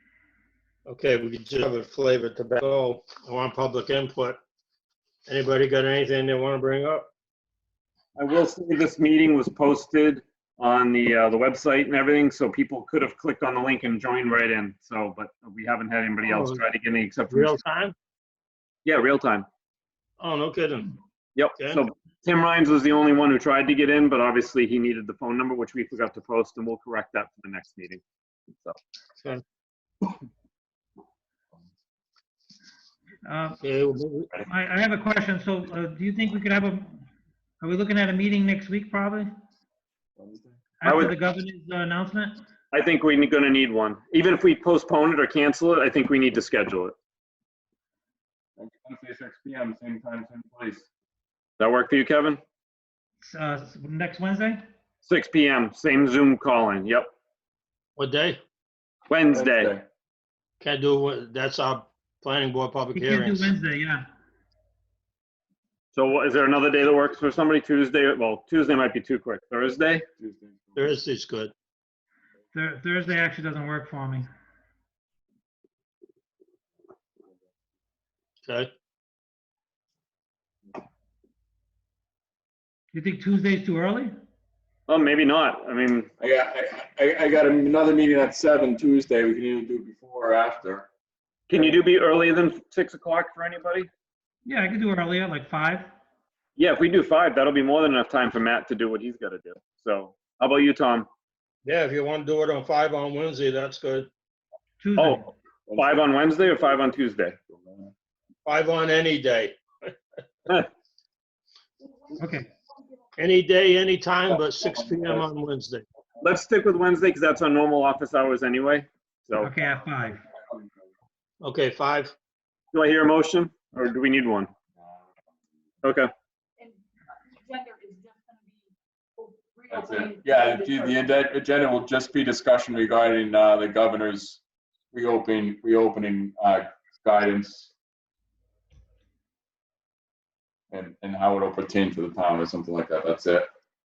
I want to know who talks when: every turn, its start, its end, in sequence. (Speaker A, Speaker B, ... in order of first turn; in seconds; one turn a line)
Speaker A: 0.8-4.4
Speaker A: 5.3-7.1
Speaker B: 8.2-17.6
Speaker A: 16.2-16.6
Speaker A: 17.3-17.9
Speaker B: 18.8-19.5
Speaker A: 20.2-20.9
Speaker B: 21.3-28.0
Speaker A: 21.6-21.8
Speaker C: 33.2-33.6
Speaker A: 33.6-34.3
Speaker C: 34.4-37.0
Speaker C: 37.6-39.3
Speaker D: 40.2-40.6
Speaker C: 40.8-42.4
Speaker B: 40.8-41.1
Speaker B: 42.7-46.9
Speaker D: 48.6-50.9
Speaker B: 51.6-52.4
Speaker C: 53.2-54.6
Speaker B: 55.0-57.1
Speaker A: 58.0-58.4
Speaker B: 59.1-59.7
Speaker D: 59.3-59.8
Speaker A: 60.6-63.5
Speaker C: 62.9-64.0
Speaker B: 65.9-70.0
Speaker D: 70.2-71.0
Speaker A: 70.8-71.5
Speaker C: 72.5-74.3
Speaker C: 82.9-84.1
Speaker B: 84.9-86.1
Speaker D: 86.2-90.9
Speaker B: 91.5-93.9
Speaker C: 94.4-95.9
Speaker B: 96.5-101.1
Speaker A: 101.6-104.1
Speaker C: 104.8-105.3
Speaker B: 105.0-107.3
Speaker D: 105.7-106.1
Speaker D: 107.5-107.9
Speaker A: 108.5-109.9
Speaker C: 112.2-112.5
Speaker A: 113.2-115.8
Speaker D: 114.3-115.2
Speaker B: 116.2-119.5
Speaker C: 119.4-120.2
Speaker A: 121.4-122.1
Speaker B: 122.7-124.5
Speaker B: 125.8-126.1
Speaker E: 127.3-128.6
Speaker E: 129.2-130.9
Speaker D: 129.7-134.4
Speaker D: 134.9-137.7
Speaker D: 140.7-143.5